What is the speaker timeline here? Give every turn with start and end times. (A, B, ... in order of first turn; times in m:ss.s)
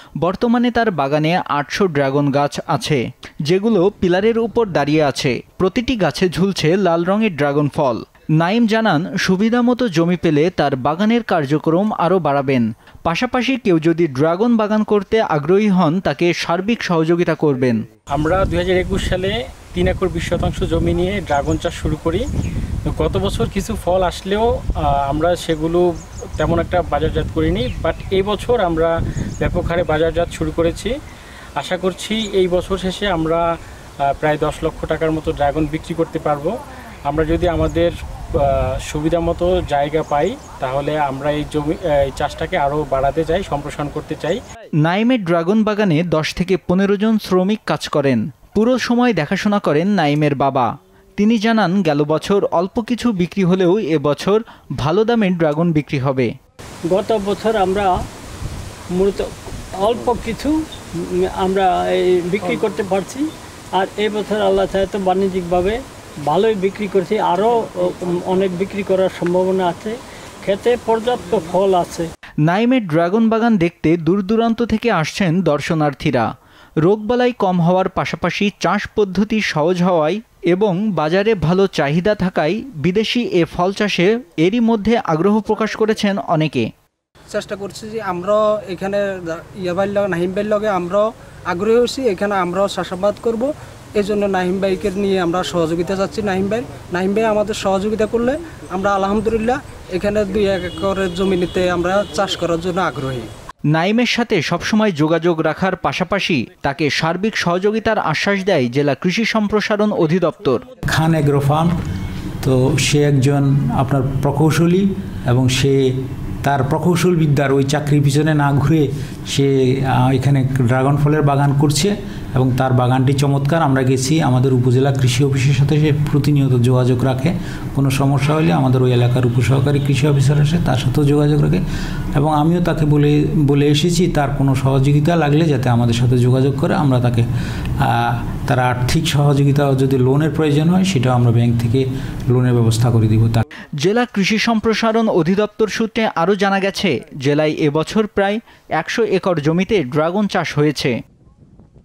0:00.2-0:17.8 A
0:18.1-0:22.2 B
0:22.8-0:25.8 B
0:26.4-0:30.9 B
0:31.6-0:33.4 B
0:34.2-0:36.5 B
0:37.1-0:44.4 B
0:44.8-0:56.3 A
0:56.9-0:57.9 C
0:58.9-1:00.5 C
1:01.2-1:12.1 C
1:12.4-1:16.3 A
1:16.8-1:26.6 A
1:27.3-1:43.3 D
1:43.7-1:50.6 A
1:50.9-1:51.8 E
1:52.4-1:55.8 E
1:56.4-2:11.6 E
2:12.1-2:17.2 E
2:17.8-2:23.5 E
2:23.8-2:30.9 A